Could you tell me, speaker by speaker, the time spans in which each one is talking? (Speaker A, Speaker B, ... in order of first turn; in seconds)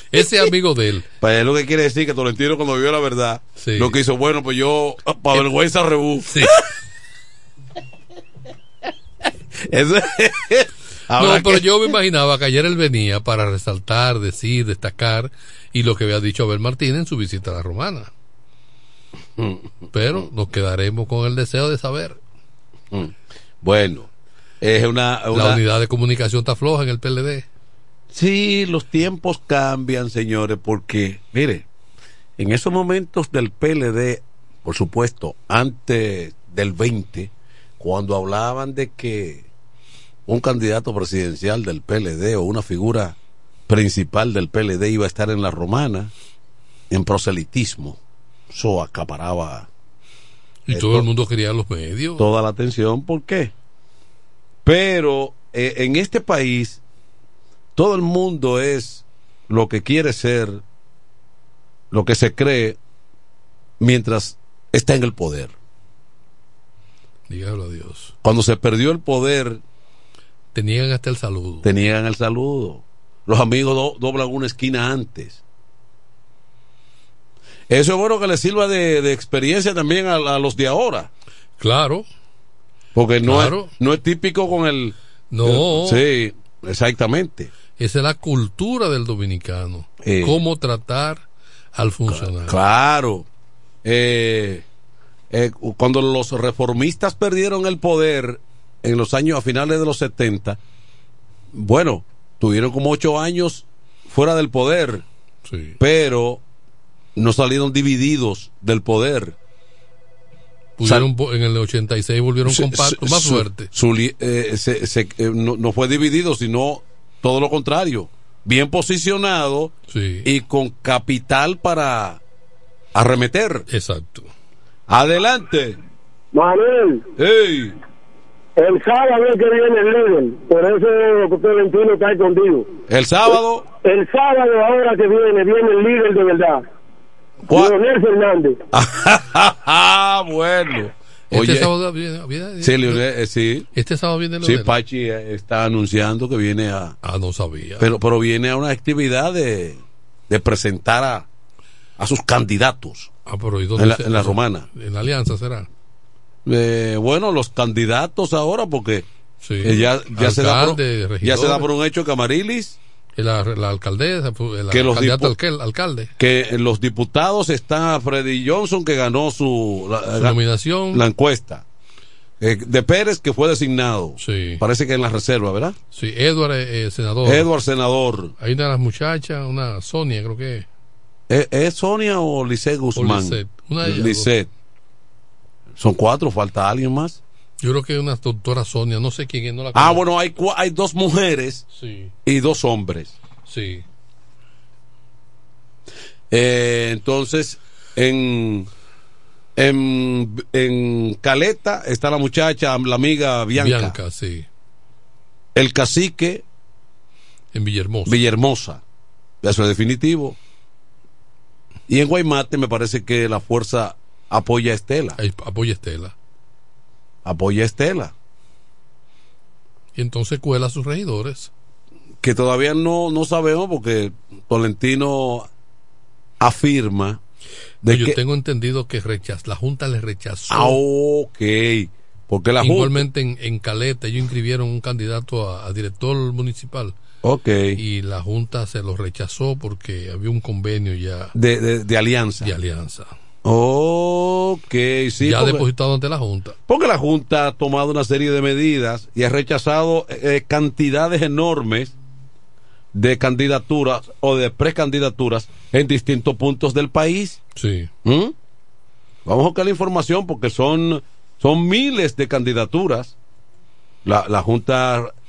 Speaker A: 0.1-1.1, 3.6-4.0, 6.3-6.6, 11.2-18.1, 19.9-22.2, 25.3-27.5, 50.7-52.3, 67.3-68.2, 70.5-71.7, 81.6-82.1, 83.2-83.7, 85.3-86.1, 87.8-92.6, 105.5-105.8, 110.8-113.7, 119.9-120.3, 123.7-124.3, 141.3-143.0, 143.7-144.8, 147.0-147.9, 153.3-155.7, 159.4-161.7, 163.2-166.1, 170.2-171.0, 174.2-174.6, 175.9-177.5, 178.4-180.7, 183.0-184.3, 187.6-190.1, 191.7-192.1, 193.5-193.8, 203.6-204.5, 207.5-208.2, 215.2-216.2, 219.9-221.5, 227.9-230.8, 232.6-237.0, 237.8-241.3, 242.4-243.2, 245.2-246.6, 257.6-257.9
Speaker B: 1.2-6.7, 9.6-11.6, 19.4-20.2, 22.9-24.1, 24.6-25.6, 28.1-31.7, 32.4-39.5, 40.3-43.2, 43.7-46.1, 46.9-48.0, 48.5-49.7, 50.7-51.1, 52.2-53.5, 54.6-56.8, 57.8-60.6, 61.9-62.8, 63.8-65.5, 68.2-69.6, 71.6-75.4, 77.7-81.1, 83.0-87.5, 90.0-90.4, 92.1-93.3, 93.8-94.7, 95.3-100.6, 101.5-105.0, 105.8-106.4, 107.2-109.4, 110.8-111.1, 112.5-122.2, 123.0-123.7, 124.9-125.8, 127.2-127.8, 132.9-133.7, 137.5-137.8, 138.7-141.7, 142.6-143.7, 144.4-147.0, 147.8-151.3, 152.0-153.1, 153.8-154.7, 156.5-159.1, 159.6-162.8, 164.7-165.4, 166.2-170.4, 170.9-171.7, 172.4-175.8, 177.2-178.3, 181.3-184.5, 185.8-187.2, 189.7-191.7, 192.2-193.2, 196.3-198.7, 199.6-204.0, 205.6-206.4, 208.1-208.8, 209.4-210.4, 211.9-215.2, 217.2-218.1, 222.2-225.5, 226.4-227.2, 227.8-228.2, 230.5-233.1, 237.2-237.8, 241.3-242.5, 243.4-245.6, 246.7-251.9, 252.9-257.4, 258.1-258.3, 259.3-263.2, 264.1-265.1
Speaker C: 126.3-127.0, 128.6-132.7, 133.8-136.6, 137.6-138.6